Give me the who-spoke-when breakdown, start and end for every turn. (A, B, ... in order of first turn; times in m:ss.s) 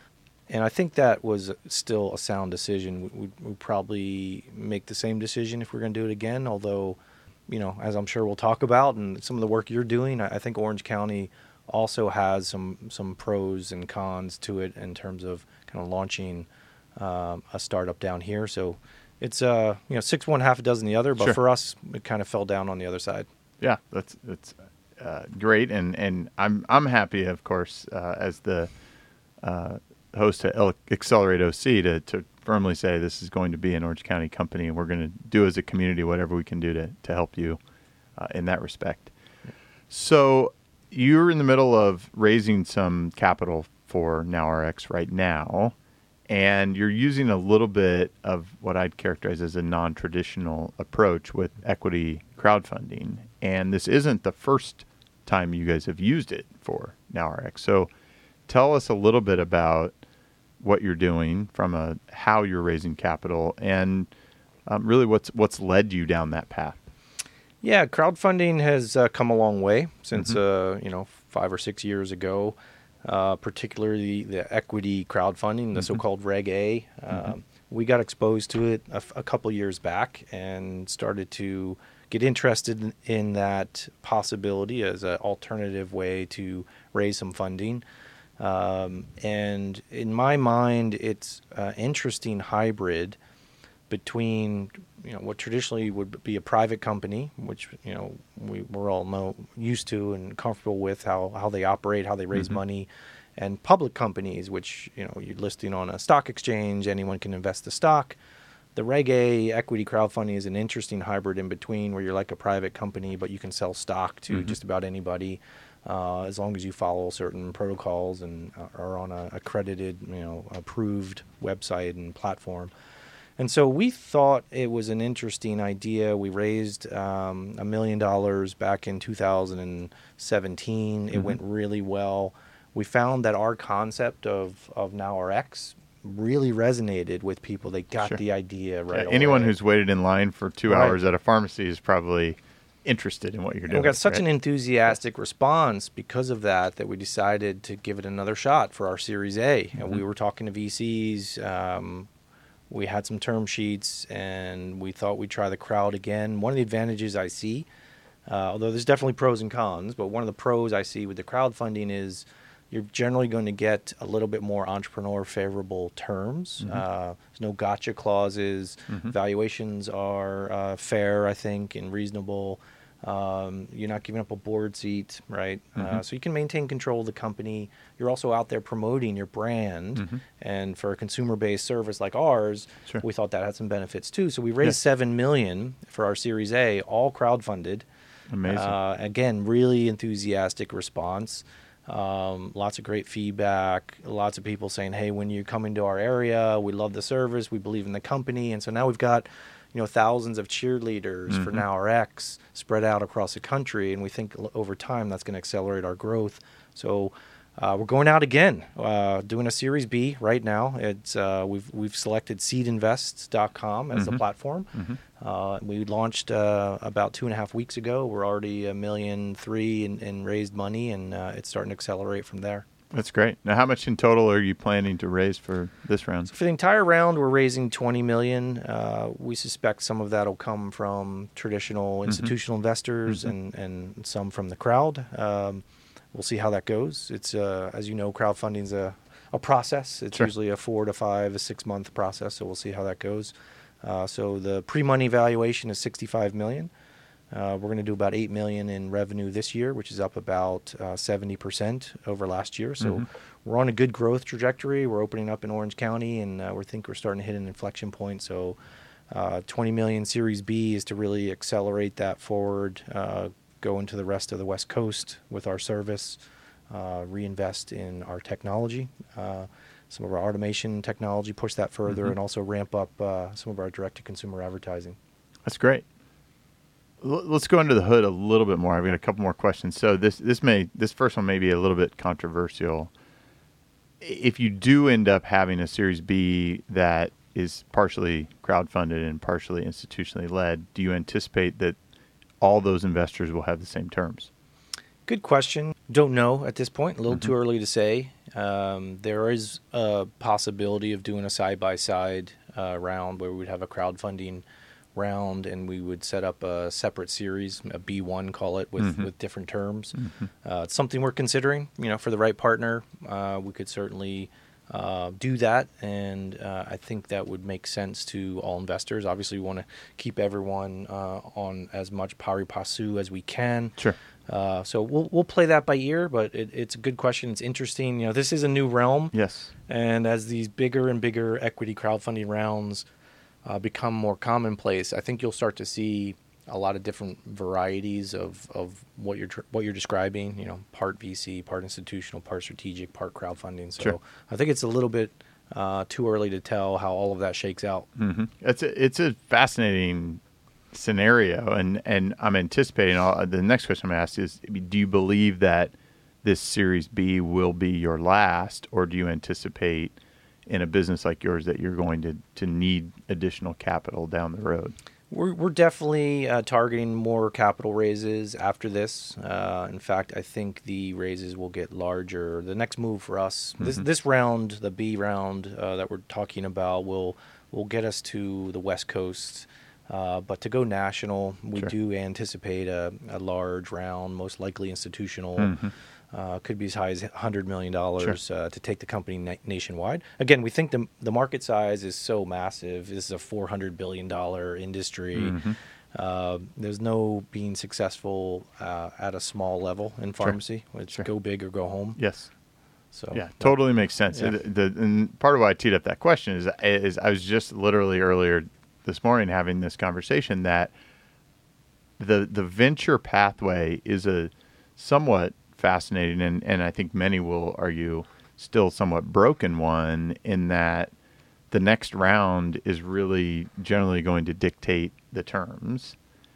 0:00.5-0:23.3 A
0:23.6-0:28.7 B
0:29.4-0:37.6 B
0:38.2-0:39.1 B
0:39.9-0:45.7 B
0:46.3-0:57.9 B
0:58.5-0:59.9 B
1:00.6-1:04.1 B
1:04.7-1:06.8 B
1:07.6-1:27.8 A
1:28.4-1:33.2 A
1:33.9-1:48.2 A
1:48.8-2:02.7 A
2:03.4-2:19.5 A
2:18.9-2:24.2 B
2:20.7-2:21.0 A
2:23.7-2:32.1 A
2:32.7-2:37.6 A
2:38.2-3:07.8 A
3:08.3-3:08.7 B
3:08.5-3:42.6 A
3:21.3-3:21.6 B
3:33.9-3:34.2 B
3:42.9-3:46.3 B
3:46.3-4:06.7 A
4:07.3-4:18.6 A
4:19.1-4:35.0 A
4:35.4-4:35.8 B
4:37.0-4:42.9 B
4:44.0-4:51.8 B
4:52.4-4:54.3 B
4:55.1-5:04.4 A
5:05.0-5:29.1 A
5:08.8-5:09.1 B
5:10.0-5:10.2 B
5:29.1-5:29.5 B
5:29.7-5:32.8 A
5:33.4-5:47.9 A
5:48.0-5:50.2 B
5:50.7-5:55.7 B
5:56.2-6:04.7 B
6:05.1-6:25.6 A
6:25.4-6:25.7 B
6:26.1-6:35.4 A
6:35.2-6:35.6 B
6:35.9-6:42.0 A
6:42.0-6:42.3 B
6:42.9-6:44.3 A
6:43.1-6:50.7 B
6:52.0-7:00.9 B
7:01.5-7:06.0 B